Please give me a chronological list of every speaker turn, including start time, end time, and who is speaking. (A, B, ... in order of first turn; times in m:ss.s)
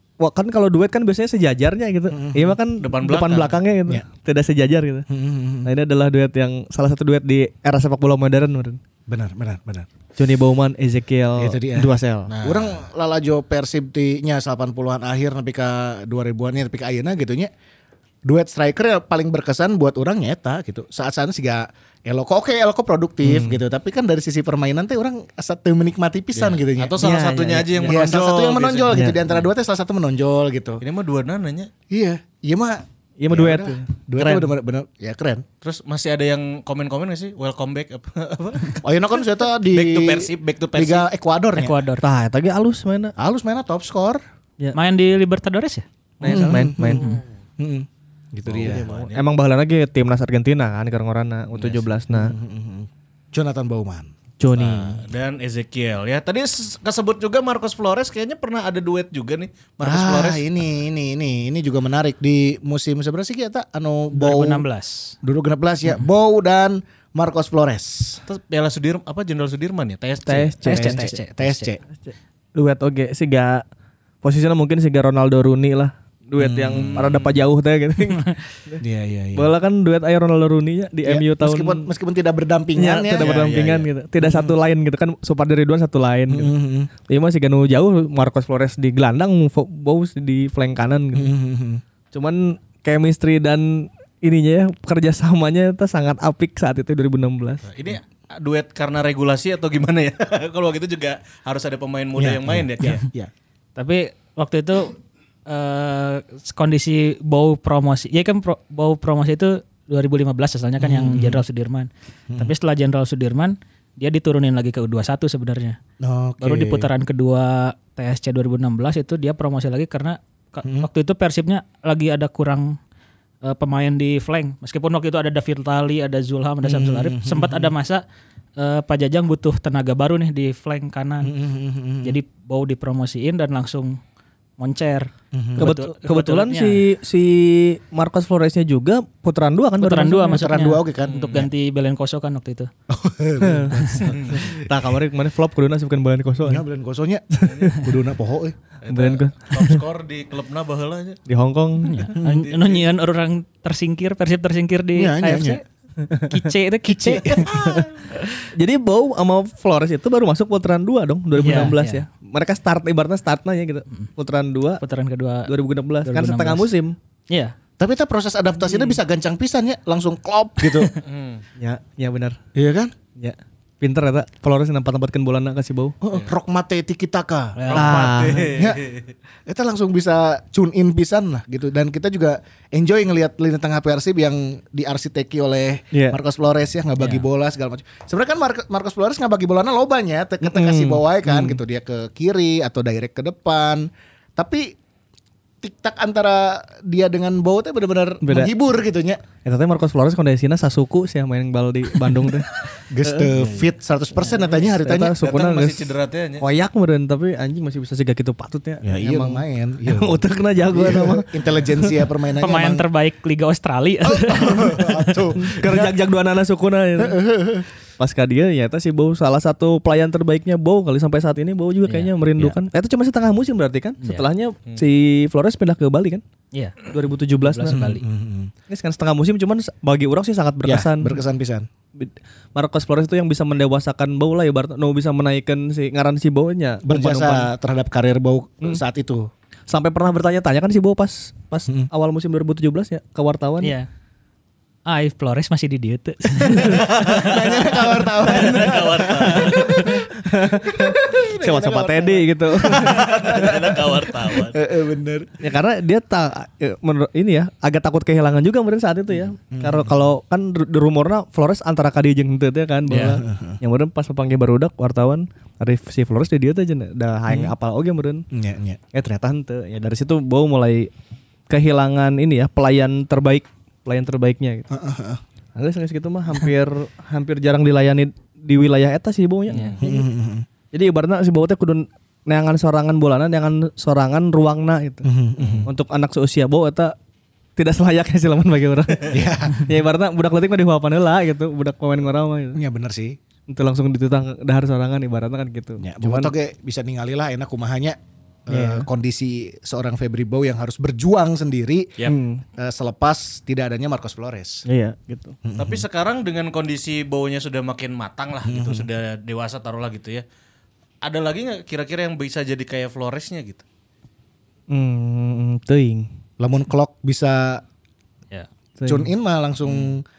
0:00.2-0:05.1 A
0:02.1-0:02.6 B
0:02.8-0:03.6 C
0:05.1-0:05.7 B
0:05.6-0:08.8 A
0:09.1-0:09.9 B
0:10.2-0:12.3 A
0:11.4-0:17.5 B
0:12.3-0:12.8 C
0:18.2-0:27.0 B
0:23.2-0:23.6 A
0:26.4-0:29.2 C
0:27.0-0:28.0 A
0:27.8-0:30.8 B
0:28.9-0:29.2 A
0:30.8-0:31.7 C
0:31.9-0:35.4 B
0:33.2-0:34.5 A
0:35.6-0:38.8 C
0:38.8-0:41.8 B
0:39.7-0:41.1 C
0:41.6-0:42.1 D
0:42.0-0:43.1 A
0:43.2-0:44.2 B
0:44.7-0:46.4 D
0:46.2-0:47.2 A
0:46.2-0:47.1 B
0:47.0-0:47.2 D
0:47.6-0:48.9 B
0:48.5-0:49.2 C
0:48.6-0:52.3 A
0:51.6-0:51.9 C
0:52.1-0:54.1 B
0:54.4-0:55.0 A
0:54.5-1:00.5 C
0:59.8-1:04.6 B
1:04.1-1:05.2 D
1:05.2-1:08.2 B
1:08.3-1:10.6 C
1:10.3-1:11.2 A
1:10.6-1:11.7 D
1:10.7-1:11.8 B
1:12.0-1:13.6 A
1:14.2-1:18.8 A
1:16.4-1:17.1 B
1:16.7-1:17.4 C
1:18.8-1:19.5 B
1:19.4-1:21.9 A
1:21.0-1:23.4 B
1:22.8-1:26.5 A
1:23.2-1:23.9 C
1:24.2-1:24.6 B
1:26.3-1:26.9 B
1:27.1-1:31.3 A
1:31.1-1:31.8 B
1:32.1-1:37.6 A
1:37.7-1:43.0 C
1:42.2-1:43.3 B
1:43.8-1:55.8 D
1:50.8-1:51.4 B
1:56.0-1:56.9 B
1:56.4-2:02.8 D
2:00.6-2:00.9 B
2:03.4-2:08.0 D
2:06.6-2:07.7 B
2:08.6-2:11.3 D
2:11.2-2:12.2 B
2:12.0-2:14.0 D
2:14.6-2:16.8 D
2:15.3-2:15.7 B
2:15.6-2:20.4 A
2:19.8-2:22.7 D
2:20.3-2:21.3 B
2:21.0-2:21.5 C
2:22.9-2:24.8 B
2:23.4-2:26.6 A
2:24.1-2:24.5 C
2:26.4-2:28.6 B
2:27.4-2:27.8 A
2:27.4-2:27.8 C
2:28.8-2:31.2 C
2:28.9-2:29.8 A
2:31.3-2:32.1 A
2:31.8-2:35.6 D
2:32.2-2:32.5 B
2:32.3-2:32.8 C
2:35.0-2:35.6 B
2:36.0-2:36.4 A
2:36.3-2:37.5 D
2:36.9-2:37.9 B
2:37.5-2:37.9 A
2:38.4-2:44.8 A
2:41.4-2:42.0 D
2:44.8-2:45.5 D
2:45.5-2:47.0 A
2:46.0-2:46.7 D
2:47.3-2:47.6 D
2:47.8-2:50.9 B
2:48.7-2:49.0 D
2:51.0-2:51.4 C
2:51.6-2:52.4 A
2:52.6-2:52.9 B
2:53.2-2:56.0 A
2:56.0-2:58.9 B
2:57.6-2:58.0 D
2:57.7-2:59.1 C
2:57.7-2:58.6 A
2:59.5-3:14.8 B
3:05.9-3:06.2 A
3:07.0-3:07.2 D
3:10.4-3:11.6 A
3:15.6-3:19.2 B
3:18.2-3:18.5 A
3:19.4-3:23.6 A
3:22.9-3:25.2 B
3:24.4-3:31.9 A
3:25.2-3:26.5 C
3:28.8-3:32.9 B
3:32.4-3:35.2 D
3:34.0-3:36.0 B
3:35.4-3:37.2 A
3:37.0-3:37.7 B
3:38.0-3:46.2 A
3:46.5-3:46.8 D
3:46.8-3:47.8 A
3:47.4-3:48.0 D
3:47.6-3:48.5 B
3:48.7-3:51.2 A
3:50.6-3:51.7 B
3:52.0-3:57.5 A
3:56.8-3:59.3 B
3:59.7-4:03.7 A
4:03.6-4:03.9 D
4:04.9-4:06.9 D
4:06.5-4:07.2 A
4:06.7-4:15.4 B
4:07.0-4:07.5 C
4:08.2-4:10.0 C
4:08.3-4:13.4 A
4:12.7-4:14.6 C
4:15.4-4:28.3 A
4:19.5-4:19.9 B
4:22.9-4:23.2 C
4:22.9-4:23.6 B
4:27.3-4:27.5 B
4:28.3-4:28.8 B
4:28.9-4:30.9 A
4:31.5-4:34.7 A
4:34.7-4:35.2 B
4:35.6-4:40.0 A
4:39.5-4:39.8 C
4:39.8-4:40.5 B
4:40.7-4:45.1 A
4:45.0-4:45.7 B
4:45.4-4:45.7 C
4:45.6-4:47.0 A
4:47.6-4:52.6 A
4:49.1-4:49.7 B
4:52.6-4:53.2 B
4:53.5-4:56.3 A
4:55.8-5:01.9 B
4:58.5-4:58.9 A
5:02.0-5:02.4 A
5:02.6-5:04.7 B
5:04.7-5:05.4 A
5:05.4-5:05.8 B
5:05.6-5:10.2 C
5:08.5-5:08.9 B
5:11.0-5:13.6 C
5:14.7-5:16.1 A
5:16.4-5:17.6 B
5:18.8-5:19.1 A
5:18.9-5:20.0 B
5:19.7-5:19.9 C